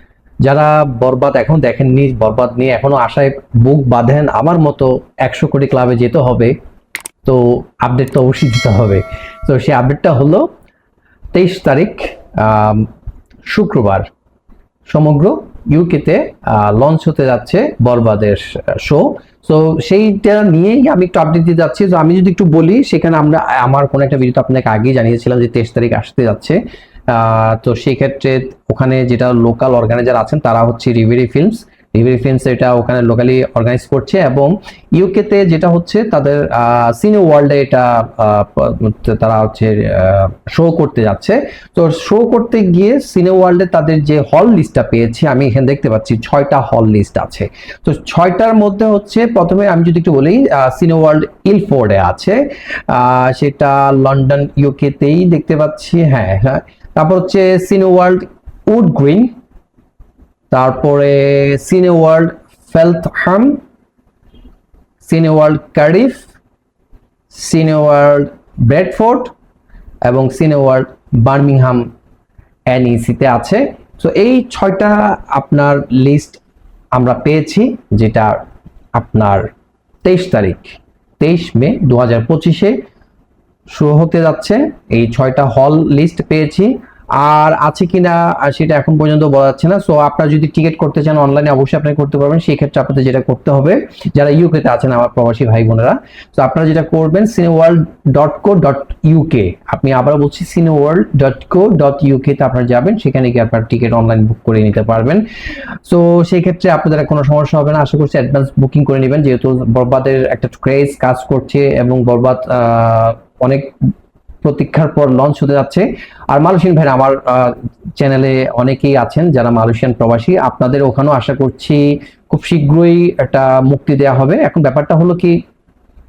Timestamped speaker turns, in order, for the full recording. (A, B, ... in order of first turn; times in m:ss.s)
0:00.4-0:06.6 A
0:07.2-0:10.5 A
0:11.3-0:12.9 A
0:13.5-0:14.1 A
0:14.9-0:59.3 A
1:00.5-1:03.6 A
1:05.0-1:06.3 A
1:07.3-1:09.3 A
1:10.0-1:11.9 A
1:12.7-1:16.4 A
1:16.9-1:18.4 A
1:18.9-1:19.5 A
1:20.0-1:22.8 A
1:23.7-1:45.2 A
1:45.8-1:53.7 A
1:54.4-2:05.4 A